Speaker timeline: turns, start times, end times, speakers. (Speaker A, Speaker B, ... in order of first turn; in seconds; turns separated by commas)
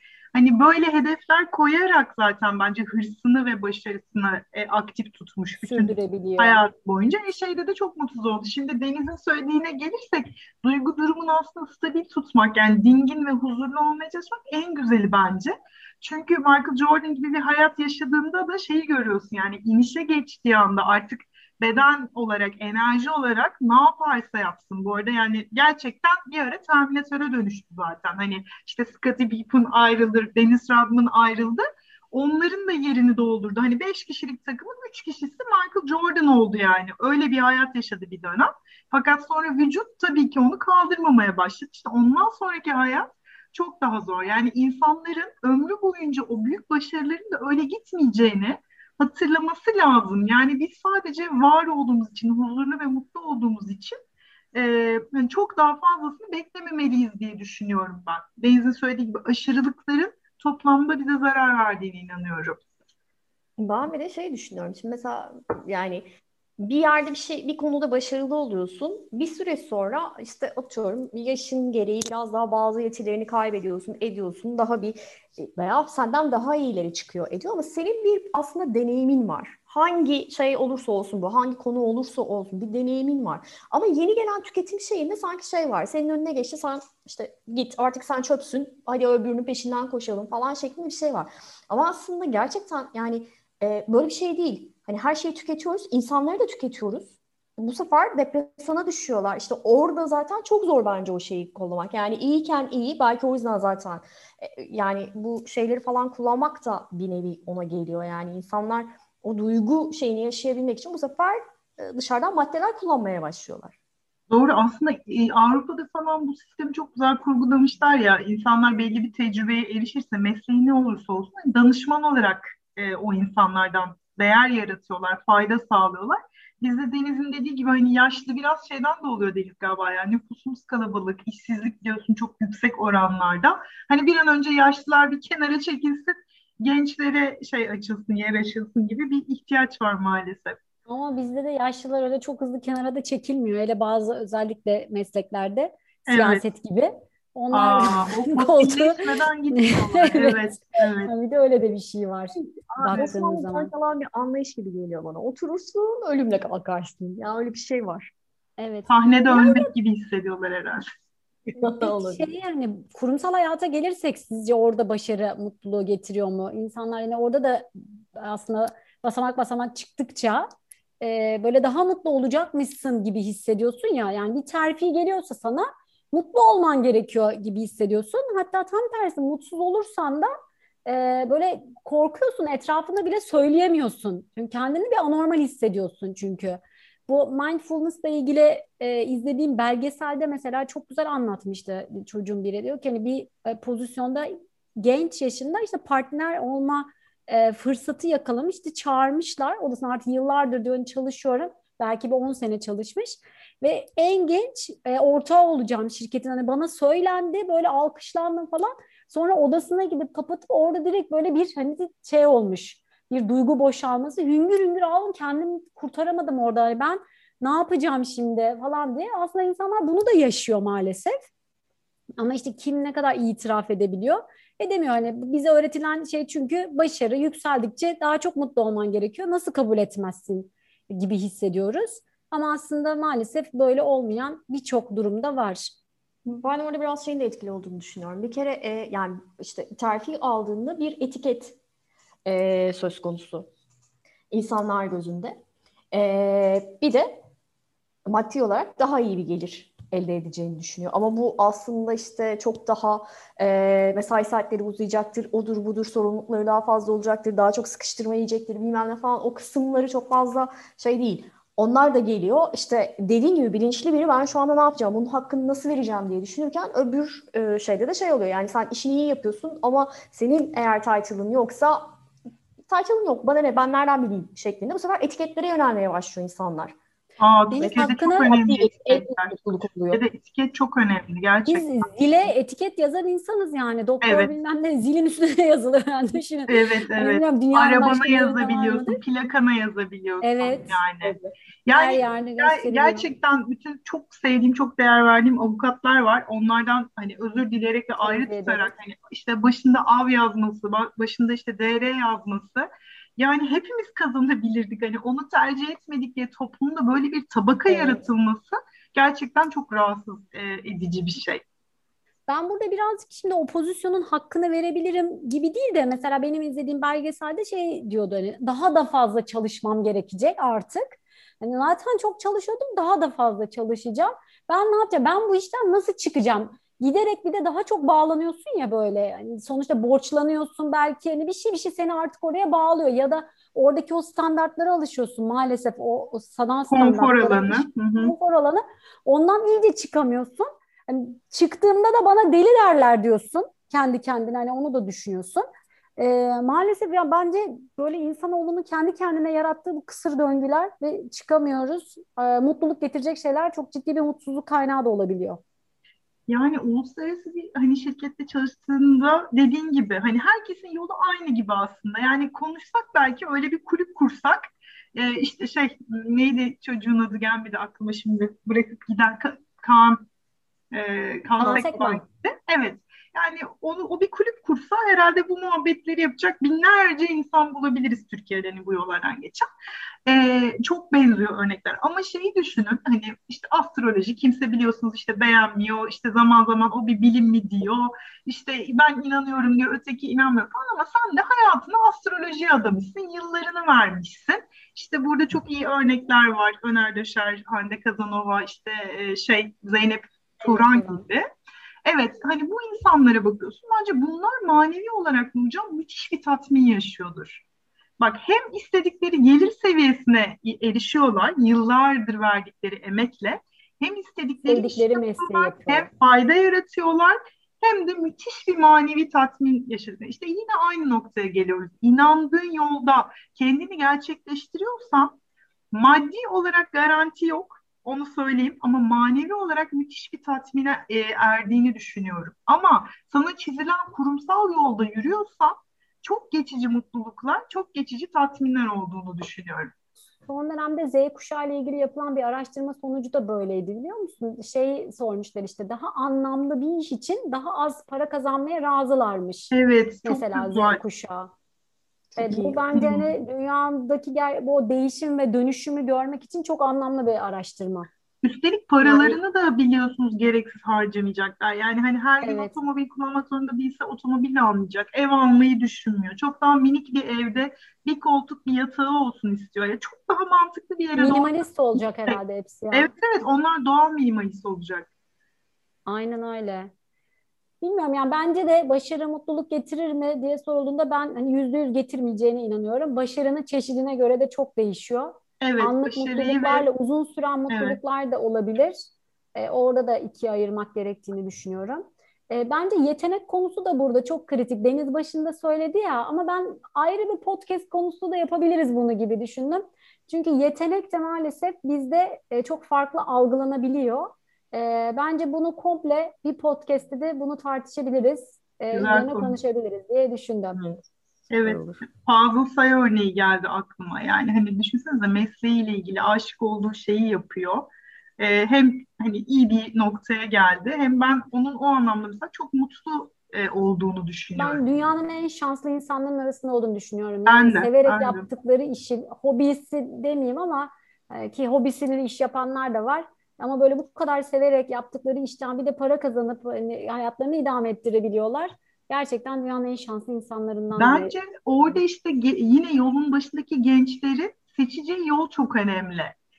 Speaker A: 0.3-54.0, Speaker B: 5.6-6.6, Speaker A: 54.5-62.6, Speaker C: 63.6-113.8, Speaker A: 114.3-140.6, Speaker B: 140.9-149.0, Speaker A: 146.1-146.4, Speaker A: 147.5-151.1, Speaker B: 149.5-153.7, Speaker C: 152.4-158.1, Speaker B: 158.6-159.7, Speaker A: 158.9-160.9, Speaker C: 161.6-162.3, Speaker B: 161.6-170.5, Speaker B: 171.0-180.3, Speaker B: 180.8-221.2, Speaker B: 222.2-235.7, Speaker C: 236.2-241.6, Speaker C: 242.2-243.5, Speaker C: 244.3-245.4, Speaker C: 245.9-247.2, Speaker C: 248.1-271.9, Speaker C: 272.7-276.7, Speaker A: 277.2-279.4, Speaker B: 277.5-278.3, Speaker C: 277.5-280.0, Speaker A: 279.9-281.9, Speaker B: 281.4-289.0, Speaker A: 284.0-284.3, Speaker A: 286.5-311.4, Speaker B: 290.2-290.8, Speaker B: 291.7-293.1, Speaker B: 298.0-298.7, Speaker B: 307.7-308.0, Speaker B: 312.3-345.4, Speaker A: 336.7-338.1, Speaker B: 346.0-355.4, Speaker A: 356.3-364.4, Speaker A: 364.9-370.0, Speaker A: 370.7-379.4, Speaker B: 371.4-372.0, Speaker A: 380.1-401.2, Speaker B: 400.4-401.0, Speaker A: 401.9-407.4, Speaker A: 408.0-425.1, Speaker B: 414.4-415.9, Speaker A: 425.7-439.7, Speaker B: 440.3-449.5, Speaker A: 449.5-450.8, Speaker B: 450.0-451.3, Speaker C: 452.1-452.6, Speaker B: 452.2-457.9, Speaker A: 452.7-453.1, Speaker A: 458.2-472.2, Speaker B: 458.8-459.2, Speaker B: 462.2-462.5, Speaker B: 470.9-472.9, Speaker A: 472.7-474.9, Speaker B: 475.9-476.7, Speaker B: 477.6-488.8, Speaker A: 485.4-486.7, Speaker A: 487.5-487.8, Speaker B: 489.3-510.6, Speaker A: 508.7-509.4, Speaker C: 510.5-510.8, Speaker A: 511.3-524.6, Speaker C: 511.4-511.8, Speaker B: 524.3-541.1, Speaker A: 527.3-528.3, Speaker A: 540.8-546.1